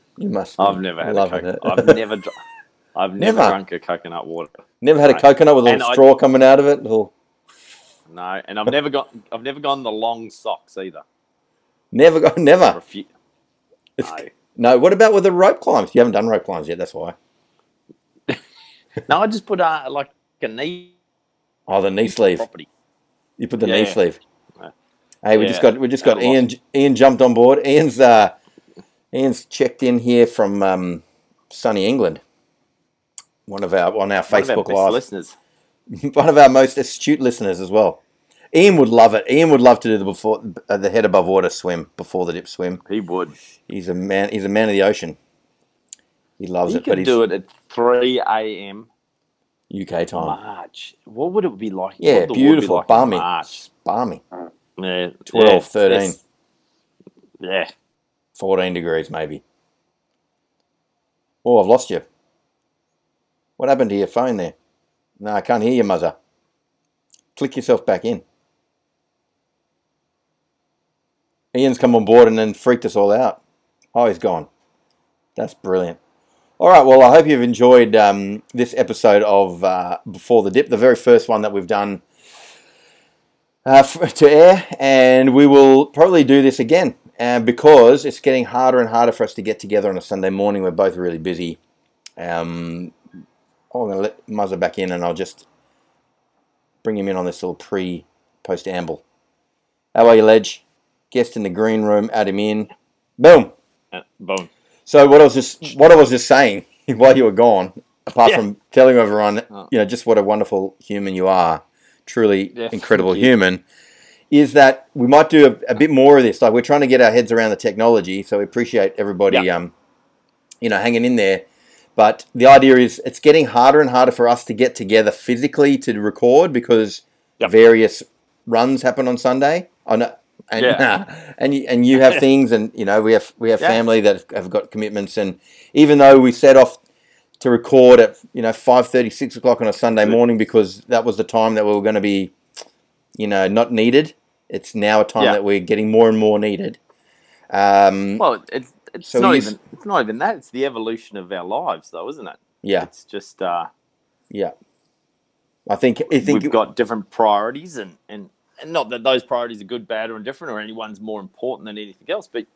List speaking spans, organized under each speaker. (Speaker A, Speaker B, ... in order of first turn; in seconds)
Speaker A: 0.2-2.0, 3.2-3.6, 4.8-7.1, 11.9-12.8, 14.0-17.1, 21.7-22.4, 23.4-24.2, 25.2-28.3, 29.1-32.2, 33.5-35.0, 35.9-38.0, 38.5-42.8, 43.7-45.2, 46.4-47.1, 49.7-50.4, 52.0-54.2, 55.3-56.2, 58.4-59.4, 61.4-62.0, 63.6-64.5, 65.2-66.1, 67.3-68.2, 71.5-73.4, 73.9-74.5, 75.3-76.0, 76.6-82.0, 83.6-91.6, 92.2-92.9, 93.7-95.4, 96.8-99.0, 99.9-103.5, 104.9-113.6, 114.3-119.7, 120.6-136.8, 137.4-142.3, 143.2-146.8, 147.5-148.2, 149.0-149.5, 152.6-152.9, 155.7-156.5
Speaker B: 0.6-2.3, 2.9-6.0, 8.1-11.0, 12.7-13.1, 14.0-14.3, 19.0-20.9, 22.4-22.7, 23.6-24.0, 25.3-26.4, 34.3-35.4, 42.9-43.3, 46.6-48.9, 50.2-53.6, 54.8-56.2, 57.4-57.7, 103.9-104.5, 112.5-113.3, 130.6-130.8, 148.2-153.7, 156.2-162.5